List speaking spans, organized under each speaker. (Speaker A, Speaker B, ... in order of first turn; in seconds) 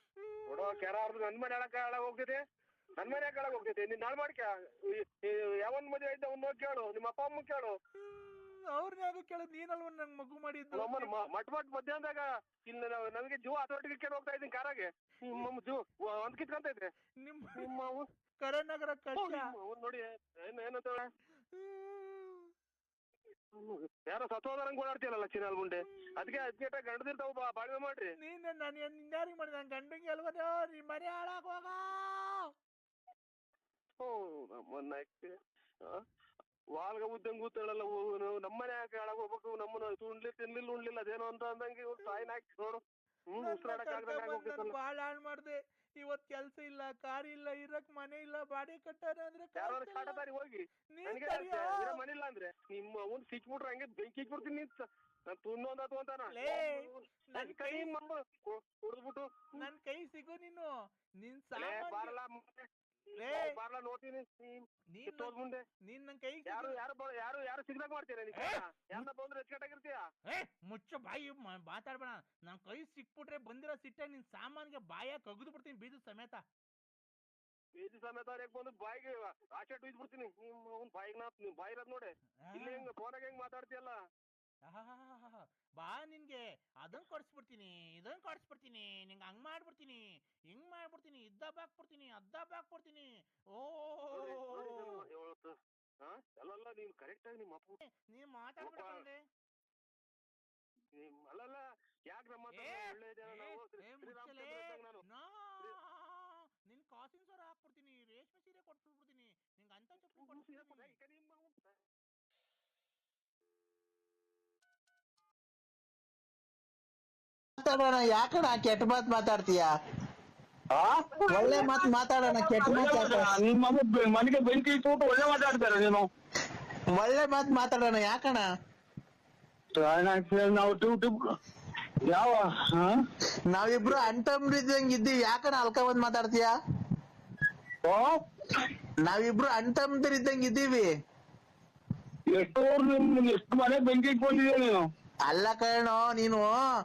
Speaker A: 0.2-0.7, 8.1-11.1, 17.2-17.7, 18.4-19.5, 21.5-22.5, 28.2-32.5, 43.4-50.2, 51.0-52.0, 56.3-57.9, 59.6-62.1, 63.2-63.5, 65.0-65.3, 65.9-66.8, 68.4-69.0, 70.3-76.4, 82.5-82.9, 84.7-95.0, 97.9-99.2, 102.5-110.9, 121.3-122.1, 134.0-136.3, 139.8-140.6
Speaker B: 0.5-2.4, 3.0-7.8, 10.8-16.9, 17.6-18.1, 19.2-21.1, 23.5-28.1, 34.0-36.0, 36.8-42.8, 43.3-44.8, 49.6-59.5, 61.6-62.7, 63.3-65.6, 66.5-70.0, 77.8-84.0, 94.1-97.8, 98.6-99.0, 101.0-105.0, 110.2-111.8, 121.3-121.6, 122.5-123.2, 143.1-143.6
Speaker C: 117.6-119.7, 121.3-123.3, 126.9-128.4, 133.6-134.2, 135.8-136.5, 139.1-140.8, 145.3-146.5
Speaker D: 122.8-126.0, 144.0-144.5